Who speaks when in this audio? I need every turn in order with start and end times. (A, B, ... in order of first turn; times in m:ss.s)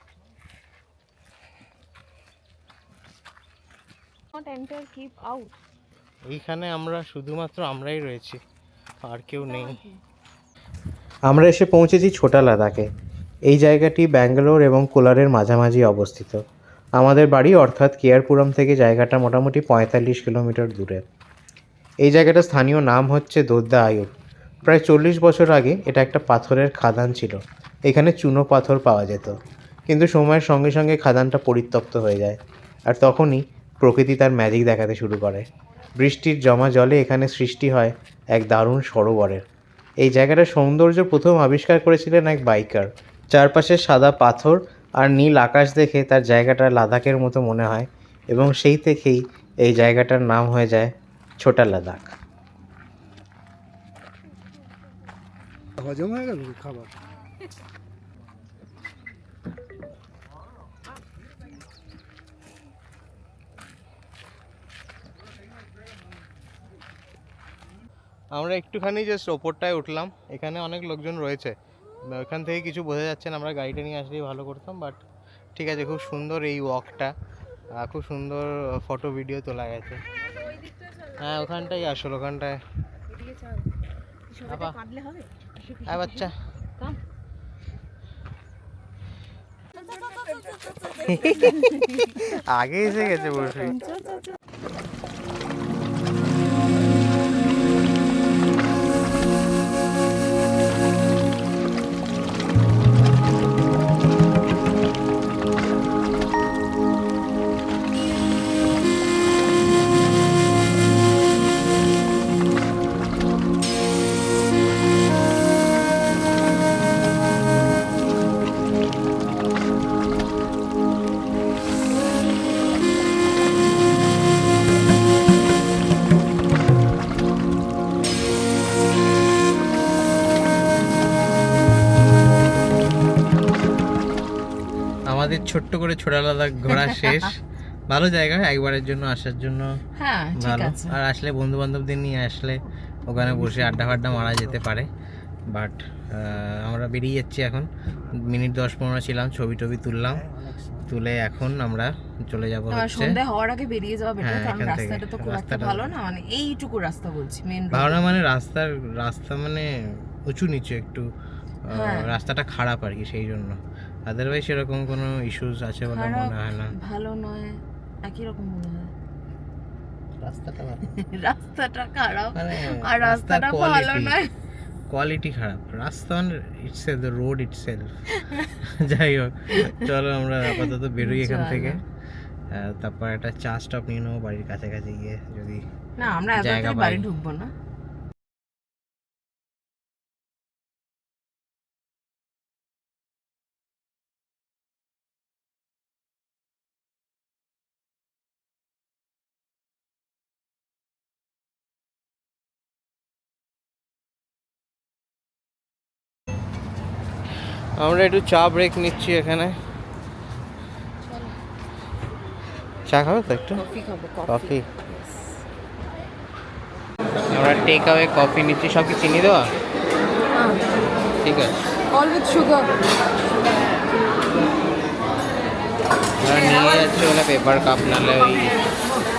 0:04.3-0:05.6 A
0:06.3-0:08.4 B
0:09.0-0:09.8 B
0:09.5-0:09.9 A
0:11.3-0:12.9 B
0:13.5-0:16.4 B
0:17.0-0:21.0 B
0:22.0-0:24.1 B
0:24.6-0:35.5 B
0:36.0-0:39.4 B
0:40.0-0:52.2 B
0:55.8-0:56.9 C
1:08.3-1:15.0 B
1:15.6-1:17.1 B
1:17.7-1:20.0 B
1:21.2-1:22.6 B
1:24.3-1:26.0 A
1:24.5-1:24.8 B
1:25.8-1:26.3 B
1:31.0-1:33.9 B
1:31.1-1:32.0 A
1:33.9-1:34.2 A
2:15.1-2:19.8 B
2:16.8-2:17.3 A
2:20.0-2:21.0 A
2:20.4-2:24.9 B
2:23.5-2:24.0 C
2:25.5-2:30.3 B
2:30.3-2:30.8 C
2:30.8-2:33.2 B
2:32.7-2:38.0 A
2:34.2-2:35.9 B
2:37.7-2:41.1 B
2:41.7-2:46.7 B
2:41.7-2:42.2 A
2:45.9-2:48.9 A
2:50.2-2:51.0 B
2:51.0-2:54.3 A
2:52.4-2:54.2 B
2:54.9-2:58.0 B
2:58.1-2:58.6 A
2:58.6-3:01.8 B
2:59.5-2:59.9 A
3:00.4-3:01.8 A
3:02.5-3:05.6 B
3:06.0-3:07.5 A
3:06.4-3:07.0 B
3:27.8-3:29.6 B
3:31.1-3:31.3 A
3:32.9-3:33.6 B
3:33.6-3:35.4 A
3:34.3-3:34.7 B
3:37.3-3:39.5 B
3:40.3-3:40.7 A
3:41.2-3:41.6 B
3:41.9-3:42.7 A
3:46.2-3:48.6 B